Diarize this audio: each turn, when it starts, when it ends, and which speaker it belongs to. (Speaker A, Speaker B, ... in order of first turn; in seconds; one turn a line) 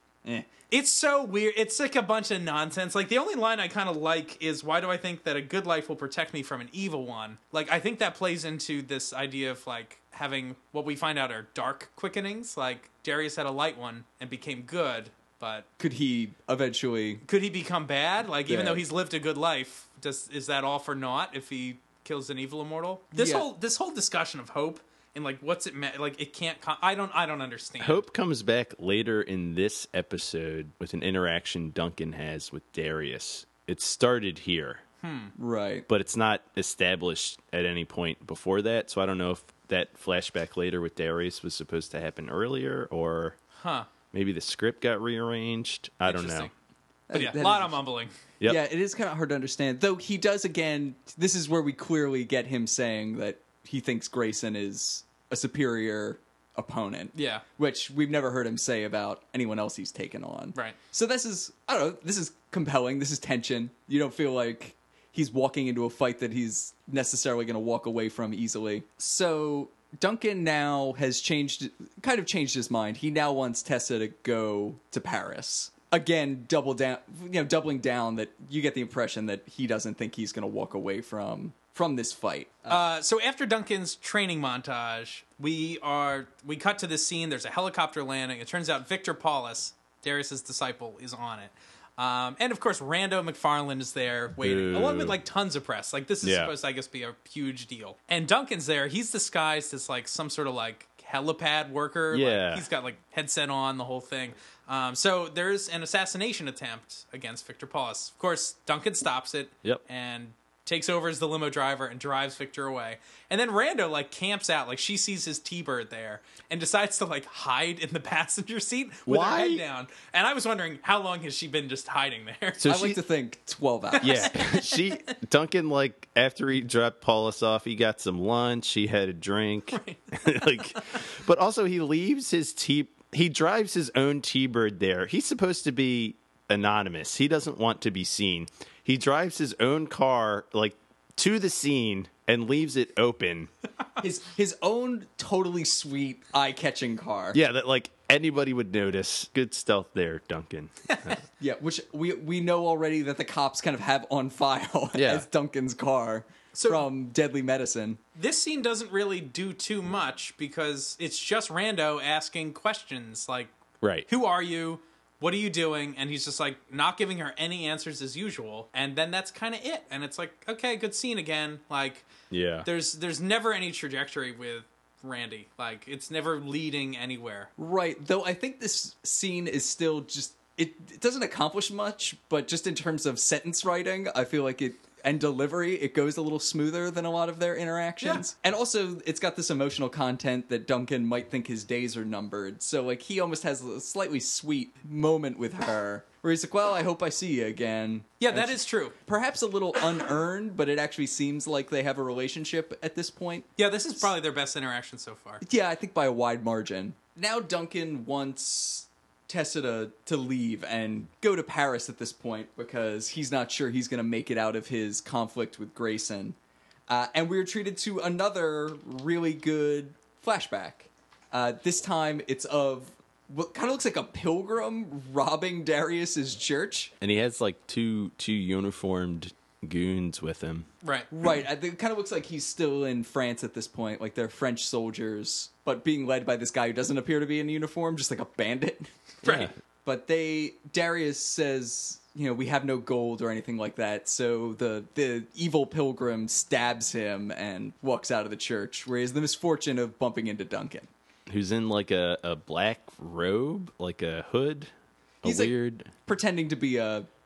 Speaker A: 0.7-15.7
Speaker B: 15.8-17.2
Speaker A: 17.2-28.0
Speaker B: 18.5-18.8
Speaker B: 23.1-23.5
Speaker C: 27.8-34.8
Speaker A: 35.0-35.3
Speaker B: 35.4-35.9
Speaker C: 35.9-43.4
Speaker A: 43.6-43.9
Speaker C: 44.1-46.5
Speaker A: 46.0-46.5
Speaker B: 47.1-47.8
Speaker A: 47.1-48.1
Speaker B: 48.4-82.8
Speaker A: 57.1-57.4
Speaker A: 82.7-122.6
Speaker C: 94.4-95.2
Speaker C: 96.2-96.5
Speaker C: 102.1-102.6
Speaker C: 119.0-119.6
Speaker C: 122.6-123.0
Speaker B: 122.6-124.4
Speaker A: 124.0-124.8
Speaker C: 124.0-143.5
Speaker A: 129.7-130.8
Speaker B: 144.0-147.4
Speaker C: 147.3-151.2
Speaker A: 150.9-151.1
Speaker B: 151.4-158.0
Speaker C: 154.9-155.3
Speaker A: 156.5-156.8
Speaker A: 158.2-163.5
Speaker C: 163.8-164.1
Speaker A: 164.1-172.1
Speaker C: 172.3-172.7
Speaker A: 172.6-177.5
Speaker B: 177.6-204.1
Speaker A: 198.2-198.9
Speaker A: 203.6-205.4
Speaker B: 205.4-216.3
Speaker B: 216.9-226.9
Speaker C: 227.0-230.7
Speaker A: 230.8-231.1
Speaker B: 231.1-238.9
Speaker A: 239.2-239.5
Speaker C: 239.2-239.5
Speaker B: 239.8-250.9
Speaker C: 251.3-254.7
Speaker C: 255.2-255.9
Speaker B: 255.2-255.5
Speaker B: 256.0-257.1